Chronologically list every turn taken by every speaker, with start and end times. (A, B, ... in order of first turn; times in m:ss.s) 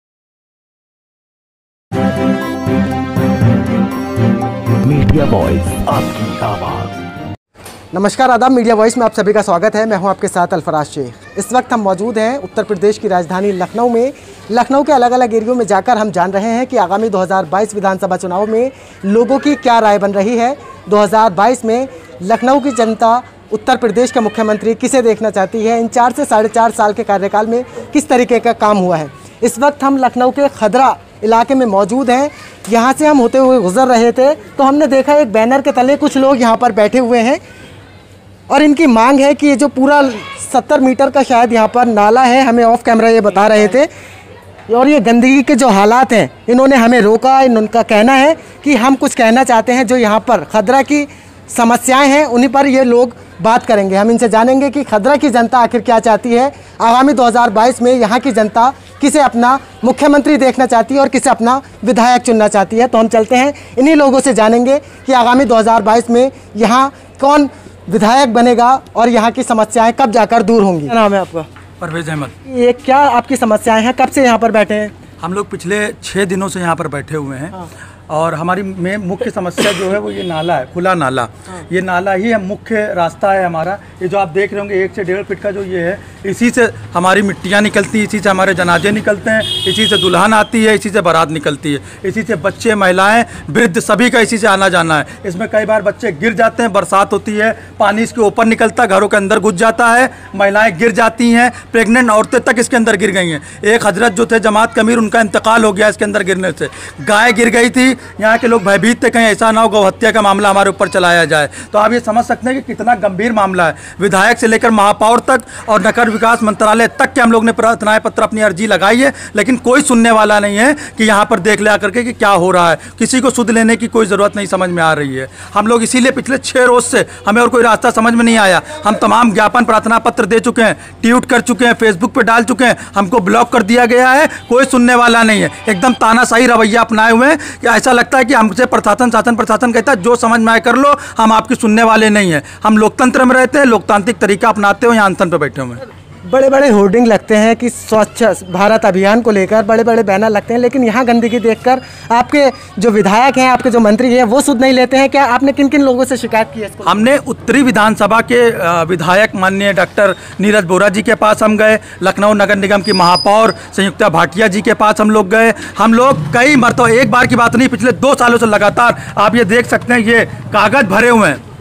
0:04.8-0:06.9 A
0:07.9-0:37.4 B
0:38.5-0:43.9 B
0:44.7-1:11.5 B
1:11.8-1:12.3 C
1:12.5-1:14.9 B
1:15.2-1:17.5 C
1:18.1-2:25.8 C
2:26.3-2:37.0 B
2:36.8-2:51.4 C